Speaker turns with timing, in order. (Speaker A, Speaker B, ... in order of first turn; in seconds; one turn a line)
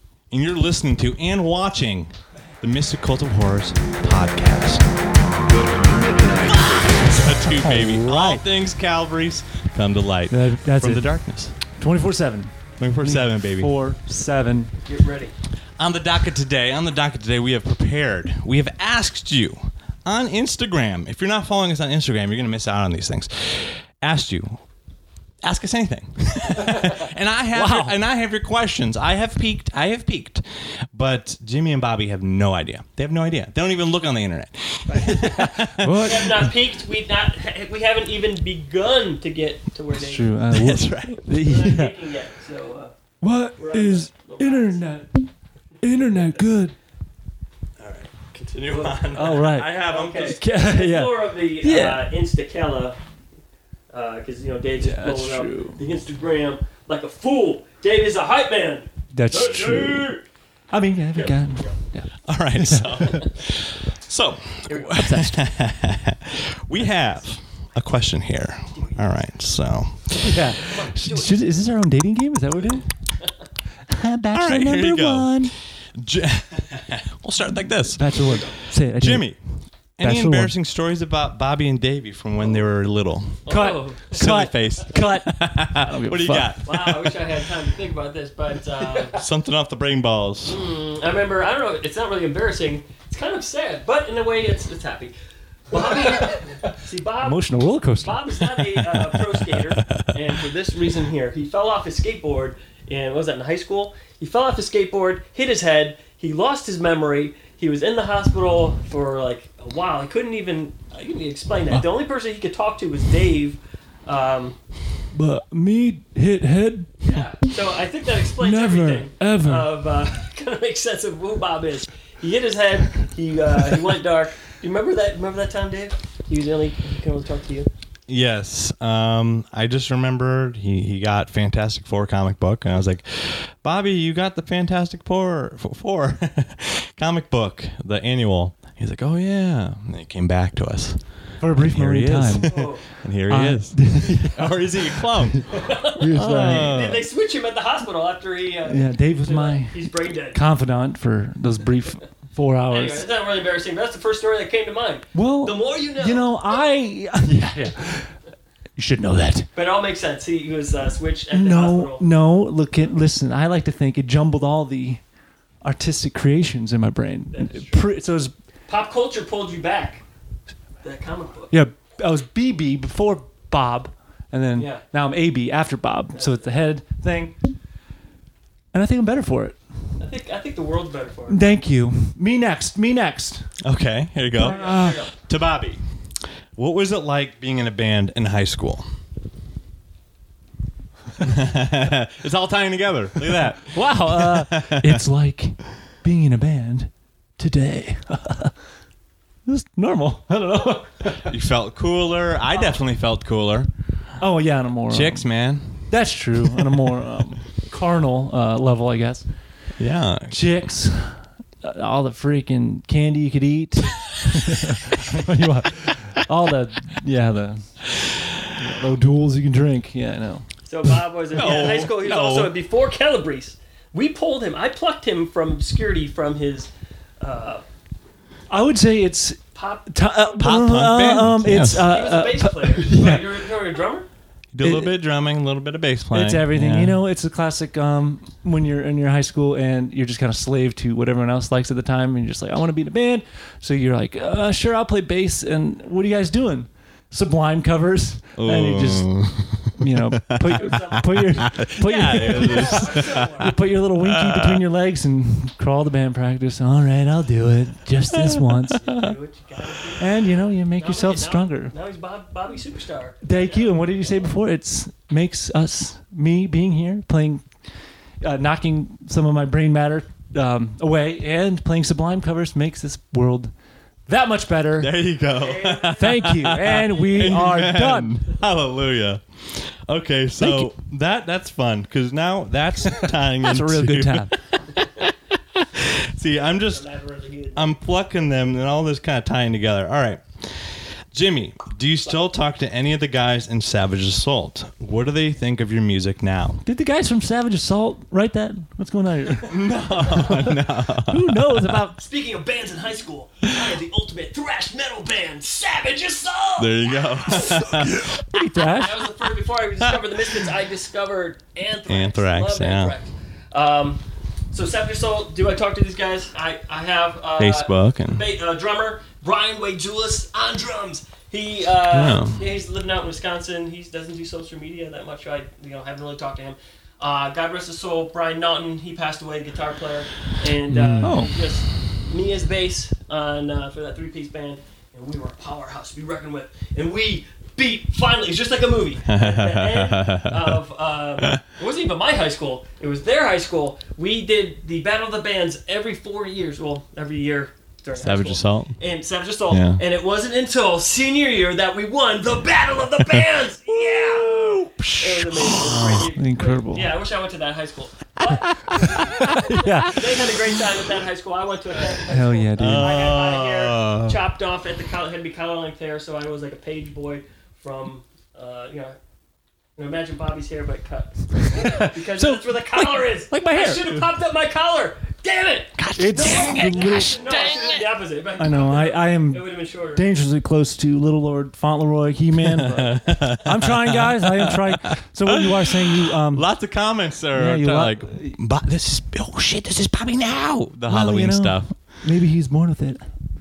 Speaker A: 0.3-4.9
Speaker A: 6.3-11.6
Speaker B: 7.4-8.4
Speaker B: 10.3-14.7
Speaker A: 12.8-13.7
Speaker C: 14.9-15.3
Speaker A: 15.8-24.6
Speaker A: 25.4-36.0
Speaker B: 27.5-27.9
Speaker C: 34.9-40.4
Speaker B: 35.8-36.5
Speaker B: 39.9-42.0
Speaker A: 40.5-41.4
Speaker C: 41.4-42.9
Speaker B: 43.2-45.3
Speaker C: 43.6-45.0
Speaker B: 45.8-46.7
Speaker A: 47.8-50.4
Speaker C: 48.7-49.2
Speaker B: 49.1-52.1
Speaker C: 49.7-53.0
Speaker C: 53.9-60.2
Speaker B: 54.8-55.8
Speaker B: 59.1-60.1
Speaker B: 60.7-63.2
Speaker C: 61.1-61.7
Speaker A: 62.2-70.5
Speaker B: 64.9-65.5
Speaker C: 68.7-69.2
Speaker B: 70.2-72.9
Speaker C: 70.7-71.3
Speaker B: 73.9-75.5
Speaker A: 74.3-83.5
Speaker B: 77.9-79.3
Speaker C: 78.2-78.5
Speaker B: 80.0-80.5
Speaker C: 83.5-84.3
Speaker B: 83.5-86.6
Speaker A: 84.1-87.3
Speaker C: 86.6-89.2
Speaker A: 89.2-90.6
Speaker C: 90.4-95.1
Speaker C: 95.7-97.4
Speaker B: 97.2-98.5
Speaker C: 98.0-114.6
Speaker A: 99.3-100.0
Speaker B: 115.1-117.2
Speaker C: 117.0-127.7
Speaker B: 118.4-119.7
Speaker A: 128.1-145.6
Speaker B: 141.4-142.5
Speaker C: 142.4-142.8
Speaker B: 143.2-144.8
Speaker C: 145.5-150.4
Speaker B: 146.0-146.8
Speaker A: 146.1-147.0
Speaker B: 148.7-153.1
Speaker C: 152.7-156.6
Speaker B: 155.1-158.2
Speaker B: 158.8-159.5
Speaker C: 159.5-162.0
Speaker B: 161.3-165.0
Speaker B: 165.6-168.3
Speaker C: 167.3-167.9
Speaker C: 168.7-170.0
Speaker C: 170.8-171.5
Speaker B: 171.5-177.3
Speaker C: 174.6-174.8
Speaker C: 176.1-176.5
Speaker B: 178.7-179.6
Speaker C: 180.0-181.4
Speaker B: 181.3-183.6
Speaker A: 183.6-185.8
Speaker C: 184.3-185.1
Speaker B: 184.3-185.0
Speaker A: 186.5-188.8
Speaker A: 191.2-195.0
Speaker B: 193.7-198.5
Speaker B: 199.4-201.3
Speaker A: 201.2-203.7
Speaker B: 204.2-205.2
Speaker A: 204.9-205.9
Speaker B: 205.9-209.3
Speaker A: 209.8-210.4
Speaker B: 210.3-220.5
Speaker C: 220.6-227.6
Speaker A: 221.3-222.5
Speaker B: 228.5-233.2
Speaker C: 229.5-230.5
Speaker A: 230.4-231.9
Speaker C: 231.7-234.1
Speaker A: 234.5-237.0
Speaker B: 234.6-235.0
Speaker B: 236.1-258.9
Speaker A: 248.4-253.2
Speaker C: 250.4-253.6
Speaker A: 254.0-254.6
Speaker C: 258.8-260.1
Speaker B: 260.0-261.7
Speaker C: 260.7-264.1
Speaker B: 263.2-267.4
Speaker B: 268.2-273.5
Speaker B: 274.1-274.9
Speaker A: 274.8-286.8
Speaker C: 275.4-277.3
Speaker B: 275.9-278.1
Speaker B: 280.4-280.7
Speaker B: 283.4-284.4
Speaker C: 286.5-287.8
Speaker A: 287.6-296.6
Speaker B: 296.6-299.6
Speaker A: 299.4-301.8
Speaker B: 301.1-302.0
Speaker C: 302.0-307.8
Speaker A: 306.6-308.2
Speaker B: 307.8-309.0
Speaker C: 308.7-314.0
Speaker A: 311.9-312.9
Speaker C: 314.5-368.9
Speaker A: 317.4-318.2
Speaker A: 321.9-322.4
Speaker A: 330.7-331.2
Speaker B: 331.0-331.3
Speaker A: 339.1-340.6
Speaker A: 348.0-348.8
Speaker A: 349.5-349.8
Speaker A: 354.1-356.0
Speaker B: 355.6-356.9
Speaker B: 358.5-360.5
Speaker B: 362.0-362.9
Speaker A: 362.6-364.2
Speaker C: 369.8-380.0
Speaker B: 371.4-374.1
Speaker A: 375.8-377.8
Speaker B: 376.0-377.5
Speaker B: 378.4-386.5
Speaker C: 382.6-383.0
Speaker A: 382.7-384.6
Speaker A: 385.3-391.7
Speaker B: 387.3-388.4
Speaker B: 390.9-393.1